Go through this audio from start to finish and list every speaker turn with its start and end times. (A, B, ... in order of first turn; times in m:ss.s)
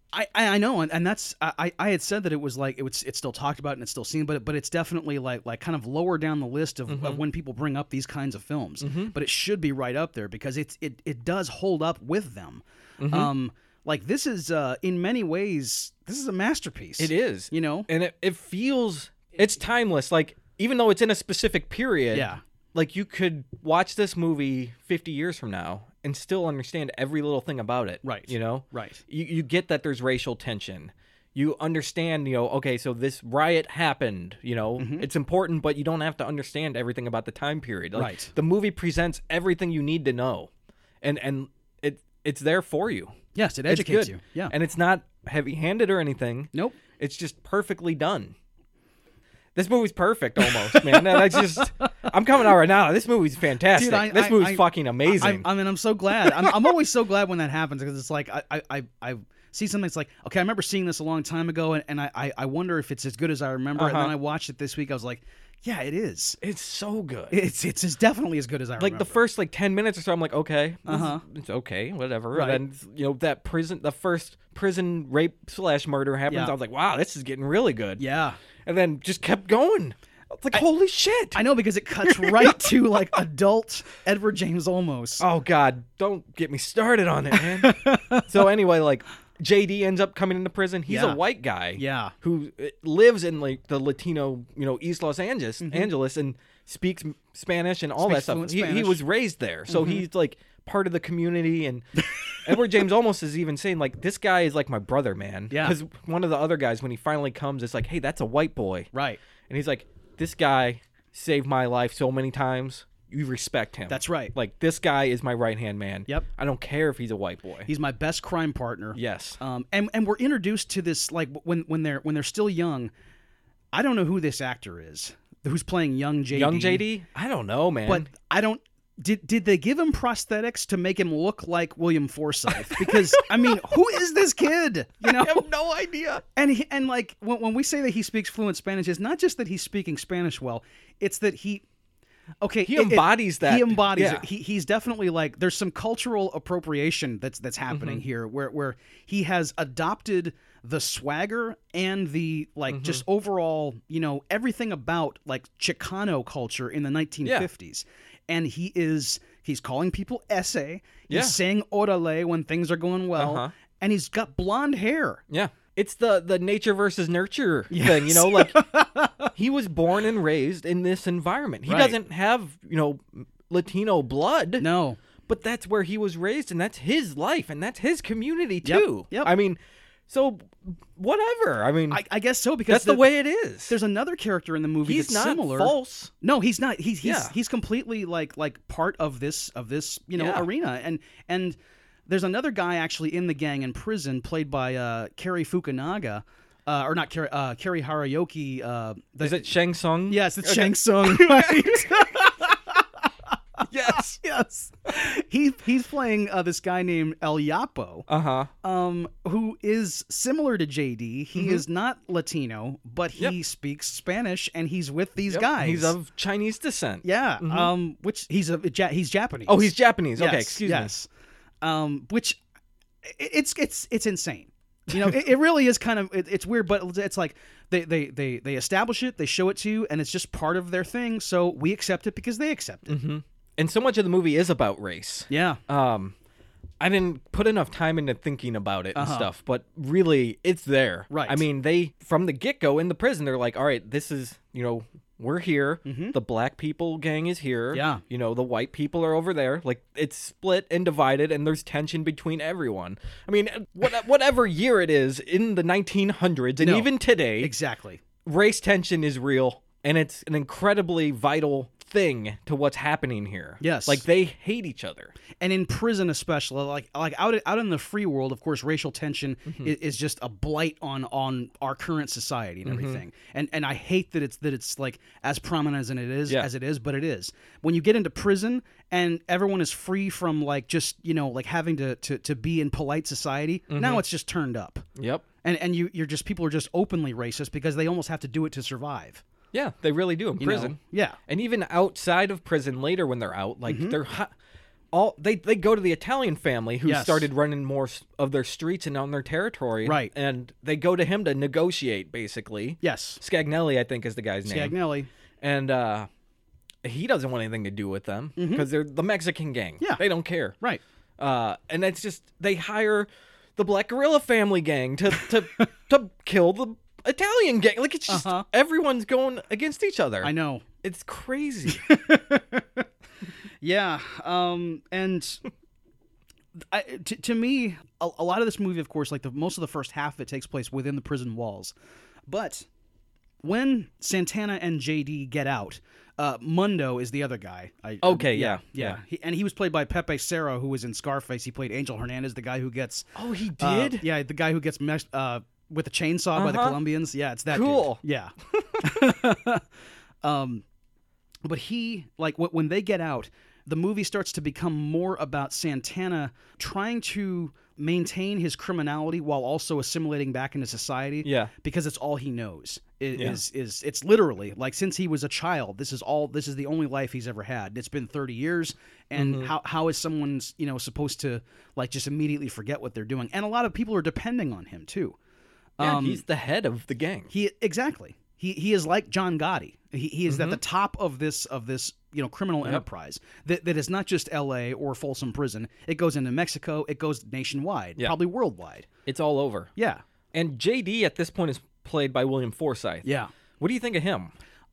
0:00.1-0:17.9 A
0:06.9-0:07.2 B
0:08.8-0:09.1 B
0:13.0-0:13.3 B
0:17.0-0:40.5 B
0:22.1-0:22.4 A
0:28.0-0:29.0 A
0:34.8-0:35.0 A
0:37.9-0:38.3 A
0:41.0-0:43.1 B
0:43.3-0:44.5 A
0:43.7-0:48.3 B
0:46.5-0:46.8 A
0:49.5-0:55.4 B
0:50.4-0:51.9 A
0:53.7-1:06.4 A
1:03.8-1:04.1 B
1:06.4-1:07.4 B
1:07.3-1:09.2 A
1:08.8-1:18.0 B
1:10.9-1:11.2 A
1:12.3-1:12.6 A
1:16.3-1:16.5 A
1:18.0-1:18.4 A
1:18.6-1:21.4 B
1:21.3-1:25.2 A
1:22.0-1:23.2 B
1:25.2-1:41.8 B
1:27.4-1:28.3 A
1:30.9-1:31.2 A
1:31.8-1:32.1 A
1:35.6-1:35.9 A
1:38.0-1:39.0 A
1:39.7-1:40.0 A
1:42.4-1:48.9 B
1:45.5-1:45.8 A
1:48.9-1:49.2 A
1:49.5-1:57.7 B
1:53.9-1:54.3 A
1:57.6-2:02.9 A
1:58.9-1:59.4 B
2:03.7-2:06.8 A
2:06.3-2:08.1 B
2:07.8-2:15.5 A
2:12.6-2:13.5 B
2:15.0-2:16.2 B
2:16.4-2:21.6 A
2:22.4-2:45.2 A
2:22.6-2:24.2 B
2:27.7-2:28.0 B
2:32.7-2:33.0 B
2:41.1-2:41.4 B
2:43.2-2:43.5 B
2:45.3-2:48.6 B
2:47.7-2:49.3 A
2:49.3-2:54.6 B
2:51.6-2:52.0 A
2:54.6-2:55.0 A
2:55.3-3:02.0 B
2:58.6-2:59.3 A
3:01.9-3:03.1 A
3:02.7-3:03.8 B
3:03.7-3:11.6 A
3:04.8-3:06.1 B
3:07.0-3:07.3 B
3:10.2-3:10.5 B
3:12.1-3:19.4 A
3:19.2-3:22.3 B
3:20.1-3:22.8 A
3:23.6-3:28.1 A
3:23.7-3:24.2 B
3:28.1-3:28.5 B
3:28.6-3:36.0 A
3:31.4-3:31.6 B
3:35.3-3:37.7 B
3:37.0-3:41.1 A
3:39.5-3:40.9 B
3:41.6-3:42.4 A
3:43.0-3:53.0 A
3:52.9-3:56.1 B
3:55.3-3:55.6 A
3:56.8-4:17.5 B
3:58.9-3:59.3 A
4:01.1-4:01.4 A
4:05.8-4:06.1 A
4:07.7-4:08.0 A
4:16.6-4:18.0 A
4:18.2-4:25.1 B
4:23.6-4:24.0 A
4:25.4-4:44.8 A
4:32.6-4:33.0 B
4:43.7-4:44.0 B
4:45.0-4:45.2 B
4:45.4-4:49.2 A
4:49.5-4:54.3 B
4:50.4-4:51.2 A
4:53.6-4:54.0 A
4:54.9-5:04.7 B
4:56.8-4:57.3 A
4:59.8-5:00.1 A
5:02.8-5:03.2 A
5:04.4-5:05.1 A
5:05.4-5:06.1 B
5:06.8-5:10.5 B
5:08.4-5:08.7 A
5:11.2-5:20.3 B
5:18.1-5:18.4 A
5:20.2-5:20.6 A
5:20.8-5:21.8 B
5:21.6-5:22.8 A
5:23.6-5:25.4 A
5:26.7-5:31.7 A
5:32.3-5:32.6 A
5:33.4-5:43.1 A
5:38.0-5:39.0 B
5:43.2-5:44.1 B
5:43.6-5:49.6 A
5:46.4-5:46.8 B
5:47.5-5:48.0 B
5:50.2-5:50.6 A
5:51.4-6:15.2 A
6:01.2-6:01.5 B
6:09.1-6:09.5 B
6:15.8-6:16.2 A
6:15.8-6:17.3 B
6:17.3-6:28.9 A
6:20.3-6:20.6 B
6:29.0-6:29.7 B
6:29.8-6:30.0 A
6:30.3-6:33.0 B
6:33.0-6:33.3 A
6:33.6-6:34.3 B